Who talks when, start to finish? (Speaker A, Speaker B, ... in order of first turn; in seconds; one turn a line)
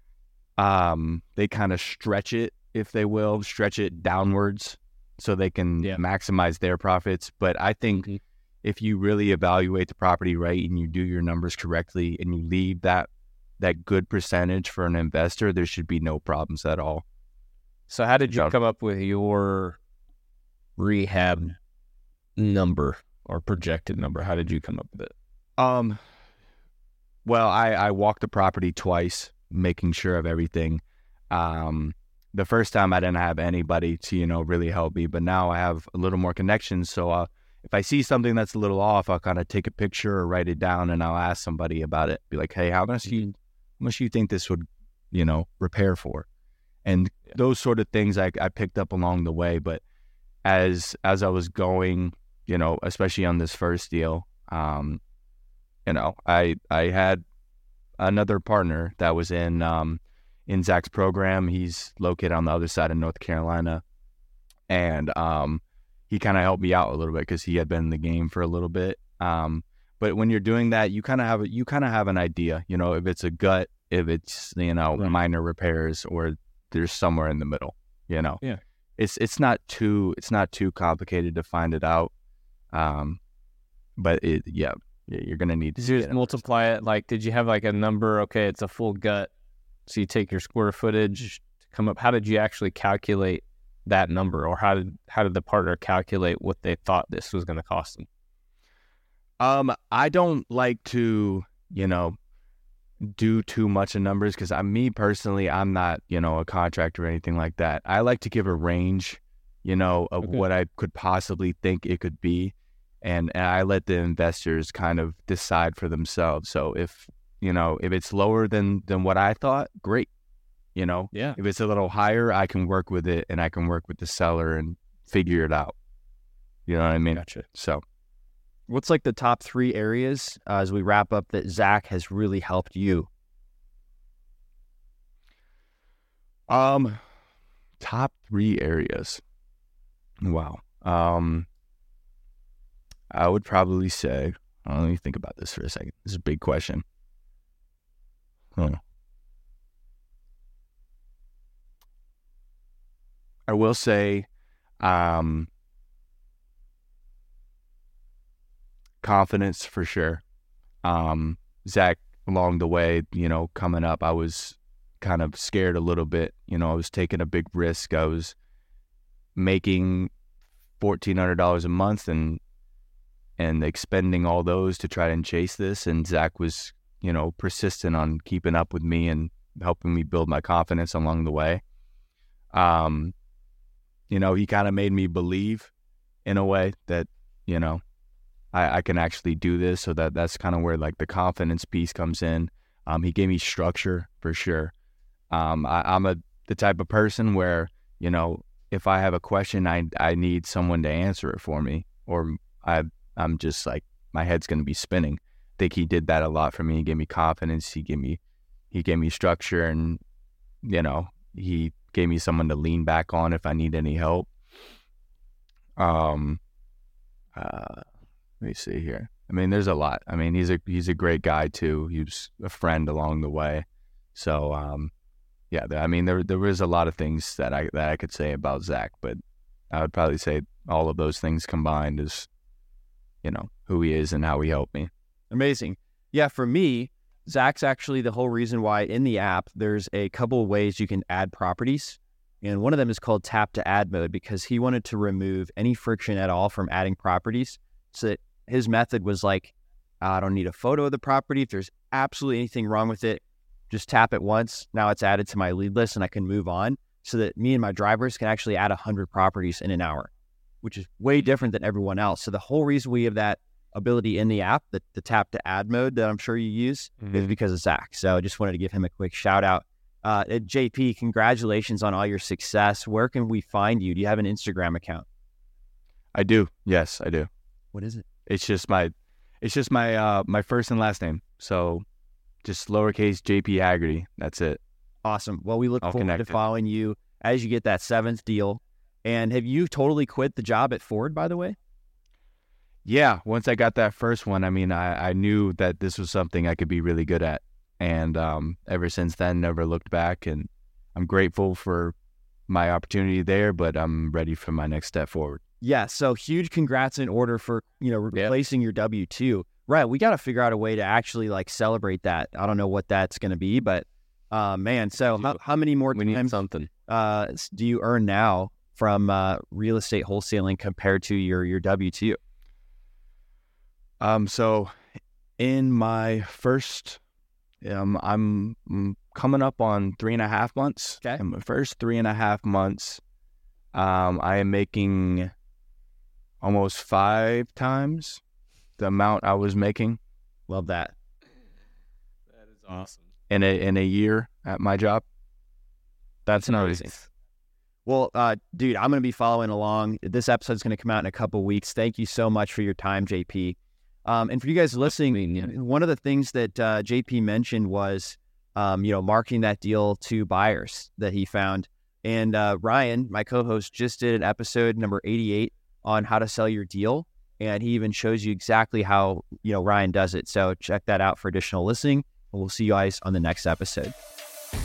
Speaker A: 0.6-8.1
Speaker A: 8.6-17.0
Speaker B: 17.9-19.8
Speaker A: 18.3-18.6
Speaker B: 20.8-21.6
Speaker B: 22.4-25.1
Speaker A: 25.6-26.0
Speaker A: 27.2-43.2
Speaker A: 43.8-46.3
Speaker A: 46.9-49.8
Speaker A: 50.5-55.0
Speaker A: 55.9-57.2
Speaker A: 58.0-63.8
Speaker A: 64.7-78.4
Speaker A: 79.0-82.1
Speaker A: 82.7-83.2
Speaker A: 84.0-86.4
Speaker B: 85.8-89.3
Speaker B: 89.9-98.1
Speaker A: 99.4-102.2
Speaker A: 103.0-120.1
Speaker A: 120.8-125.8
Speaker B: 121.1-121.4
Speaker A: 126.7-127.8
Speaker B: 127.1-127.5
Speaker C: 128.7-133.1
Speaker A: 136.5-137.0
Speaker A: 137.8-139.2
Speaker A: 140.2-141.5
Speaker A: 143.1-146.8
Speaker A: 153.5-154.3
Speaker A: 154.8-155.5
Speaker A: 159.0-160.2
Speaker A: 160.8-168.3
Speaker A: 169.4-170.1
Speaker A: 170.8-172.4
Speaker A: 173.4-181.6
Speaker A: 182.5-183.1
Speaker A: 184.1-185.7
Speaker A: 186.2-187.8
Speaker A: 188.5-194.7
Speaker A: 195.3-208.2
Speaker A: 208.7-210.0
Speaker A: 210.6-214.3
Speaker A: 215.8-216.4
Speaker A: 217.4-217.9
Speaker A: 218.4-224.9
Speaker A: 225.5-229.2
Speaker A: 229.7-232.3
Speaker A: 233.2-234.9
Speaker C: 235.3-260.1
Speaker C: 260.6-275.1
Speaker A: 276.1-277.3
Speaker C: 277.7-278.1
Speaker A: 278.3-281.9
Speaker A: 282.4-284.6
Speaker C: 285.1-291.6
Speaker A: 285.8-286.4
Speaker A: 292.9-301.9
Speaker A: 302.5-305.4
Speaker C: 305.6-322.2
Speaker B: 315.9-316.7
Speaker A: 324.0-324.8
Speaker A: 325.4-327.0
Speaker A: 327.6-333.0
Speaker A: 333.7-335.3
Speaker A: 336.4-338.2
Speaker A: 338.8-340.0
Speaker C: 340.5-340.9
Speaker B: 342.4-343.0
Speaker A: 343.3-345.1
Speaker C: 346.3-346.9
Speaker B: 346.3-347.0
Speaker C: 347.9-373.9
Speaker B: 354.9-355.5